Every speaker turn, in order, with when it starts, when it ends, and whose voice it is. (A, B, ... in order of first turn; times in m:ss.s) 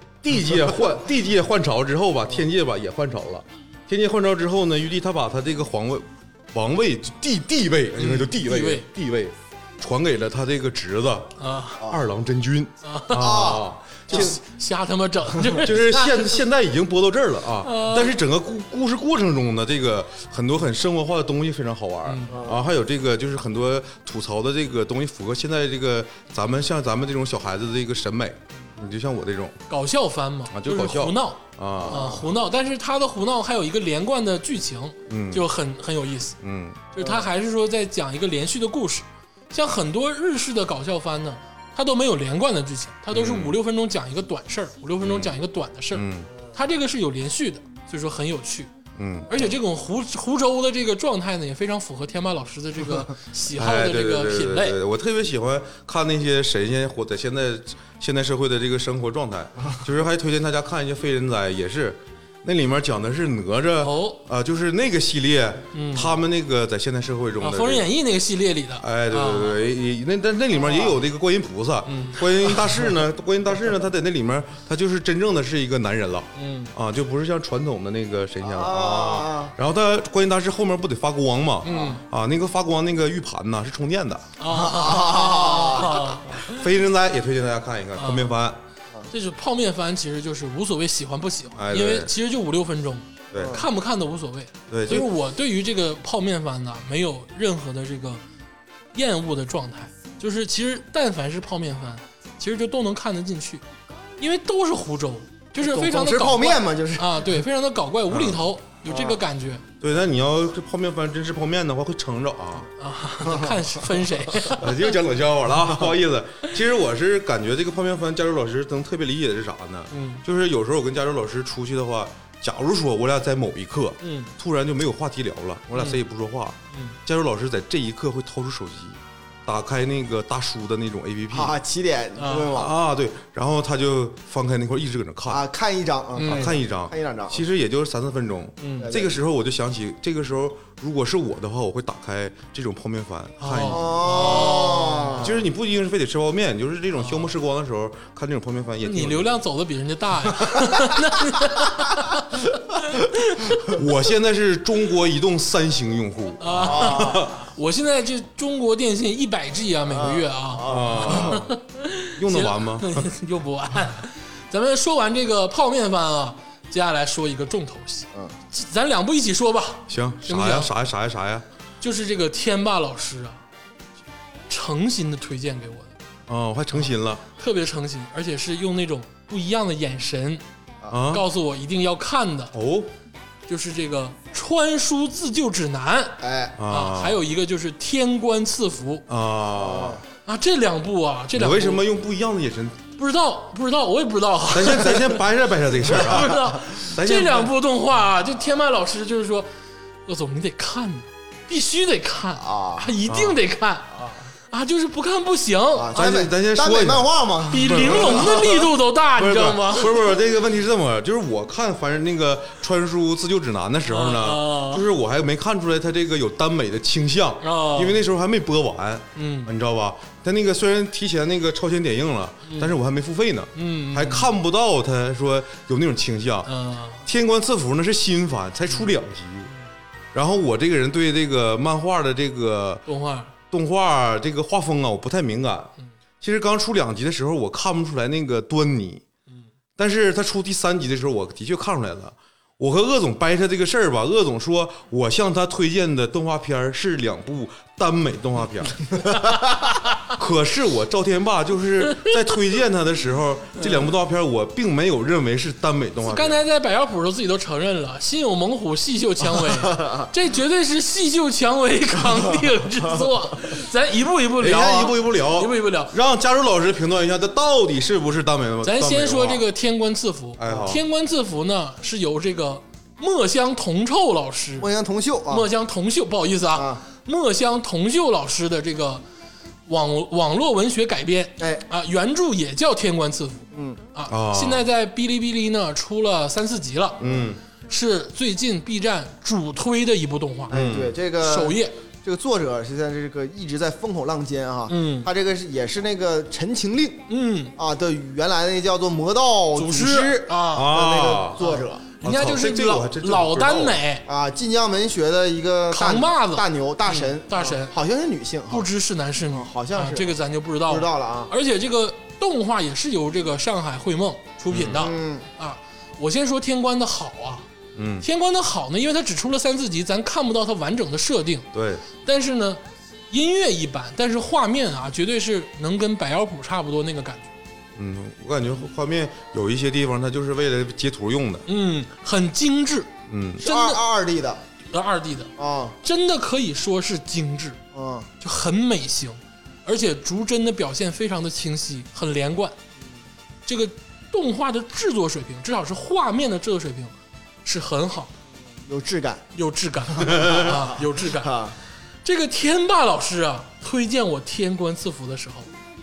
0:00.2-0:11.3 A
0:08.0-0:08.9 B
0:11.4-0:11.8 B
0:11.8-0:14.4 A
0:12.8-0:13.5 B
0:13.2-0:14.3 C
0:14.0-0:16.4 B
0:15.6-0:29.6 A
0:17.6-0:18.2 B
0:22.1-0:22.4 B
0:22.3-0:22.7 C
0:29.7-0:36.4 B
0:30.5-0:32.2 A
0:31.8-0:32.2 C
0:35.1-0:35.5 A
0:36.4-0:36.9 A
0:36.9-0:48.7 B
0:37.0-0:37.3 C
0:43.1-0:43.6 A
0:45.0-0:45.3 A
0:45.9-0:46.3 A
0:49.0-0:49.3 A
0:49.3-0:54.8 B
0:53.5-1:07.9 A
1:03.8-1:04.2 B
1:05.7-1:06.2 B
1:07.4-1:09.6 B
1:08.8-1:24.3 A
1:11.9-1:12.9 B
1:16.4-1:16.7 B
1:18.4-1:19.5 C
1:21.6-1:22.0 B
1:24.4-1:26.7 B
1:24.5-1:26.0 C
1:26.3-1:28.6 A
1:28.0-1:28.4 B
1:29.1-1:38.2 B
1:31.6-1:32.1 A
1:33.3-1:33.6 A
1:33.3-1:33.6 C
1:34.7-1:35.1 A
1:38.9-1:43.6 B
1:44.2-1:49.6 B
1:45.6-1:47.2 C
1:48.1-1:48.4 A
1:48.9-1:49.2 C
1:49.8-1:52.7 A
1:52.8-1:54.7 B
1:53.2-1:53.7 C
1:54.5-2:11.6 A
1:59.9-2:00.2 B
2:04.0-2:04.3 B
2:06.7-2:07.0 B
2:11.3-2:12.7 C
2:12.2-2:12.5 B
2:12.5-2:15.4 A
2:15.3-2:17.4 C
2:16.2-2:16.5 B
2:16.2-2:24.6 A
2:18.6-2:18.9 B
2:18.8-2:19.2 C
2:23.4-2:25.2 B
2:23.7-2:25.5 C
2:25.2-2:29.3 A
2:27.0-2:27.3 B
2:28.8-2:33.8 B
2:33.6-2:37.4 A
2:36.4-2:50.7 B
2:36.6-2:37.3 C
2:39.9-2:41.4 C
2:40.6-2:41.5 A
2:42.2-2:43.1 A
2:49.9-2:51.4 A
2:51.8-2:53.4 B
2:54.5-2:55.9 B
2:56.3-2:57.2 A
2:57.4-3:00.4 B
3:00.9-3:01.2 A
3:01.1-3:02.5 B
3:02.5-3:02.9 A
3:03.5-3:09.0 B
3:06.2-3:06.6 C
3:06.6-3:07.2 A
3:09.1-3:10.0 A
3:09.6-3:10.0 C
3:10.3-3:11.8 B
3:11.3-3:12.8 A
3:13.0-3:15.2 B
3:14.5-3:17.5 A
3:15.9-3:19.5 B
3:20.1-3:24.0 B
3:22.4-3:22.9 C
3:23.1-3:23.4 A
3:24.5-3:26.1 B
3:25.8-3:28.6 C
3:26.0-3:28.5 A
3:27.5-3:30.1 B
3:29.2-3:46.5 A
3:33.9-3:34.8 B
3:37.4-3:38.0 B
3:39.2-3:39.5 B
3:42.5-3:42.7 B
3:43.6-3:44.3 B
3:46.5-3:47.1 B
3:47.1-3:49.5 A
3:50.1-3:52.9 A
3:52.9-3:53.3 B
3:53.5-3:59.0 A
3:59.8-4:09.1 A
4:10.1-4:16.4 A
4:16.0-4:25.9 B
4:19.6-4:20.1 C
4:24.4-4:29.4 A
4:28.6-4:34.7 B
4:30.4-4:30.8 A
4:34.6-4:35.5 C
4:35.3-4:39.0 B
4:36.5-4:36.8 C
4:39.7-4:47.0 B
4:41.4-4:41.6 C
4:43.5-4:43.8 C
4:44.1-4:44.7 A
4:47.0-4:47.4 A
4:47.7-4:50.6 B
4:50.5-5:01.8 C
4:50.5-4:51.0 A
4:51.2-4:51.8 B
4:54.7-4:55.1 B
4:57.1-4:57.6 B
4:59.6-5:00.7 B
5:00.5-5:01.4 A
5:01.4-5:04.0 B
5:02.0-5:03.8 A
5:04.1-5:08.7 C
5:05.7-5:07.7 B
5:08.5-5:17.5 B
5:09.3-5:11.3 C
5:14.5-5:14.8 A
5:14.7-5:15.3 C
5:17.8-5:18.0 A
5:18.0-5:21.5 B
5:21.5-5:21.8 A
5:22.0-5:27.3 B
5:27.8-5:31.5 A
5:31.5-5:33.8 B
5:33.1-5:33.4 A
5:33.4-5:34.4 C
5:34.7-5:37.6 B
5:35.4-5:35.8 C
5:37.7-5:38.1 C
5:38.2-5:42.6 B
5:43.5-5:46.9 B
5:47.4-5:48.1 B
5:48.6-5:49.2 C
5:49.4-5:51.4 B
5:50.0-5:51.6 C
5:52.0-5:55.5 B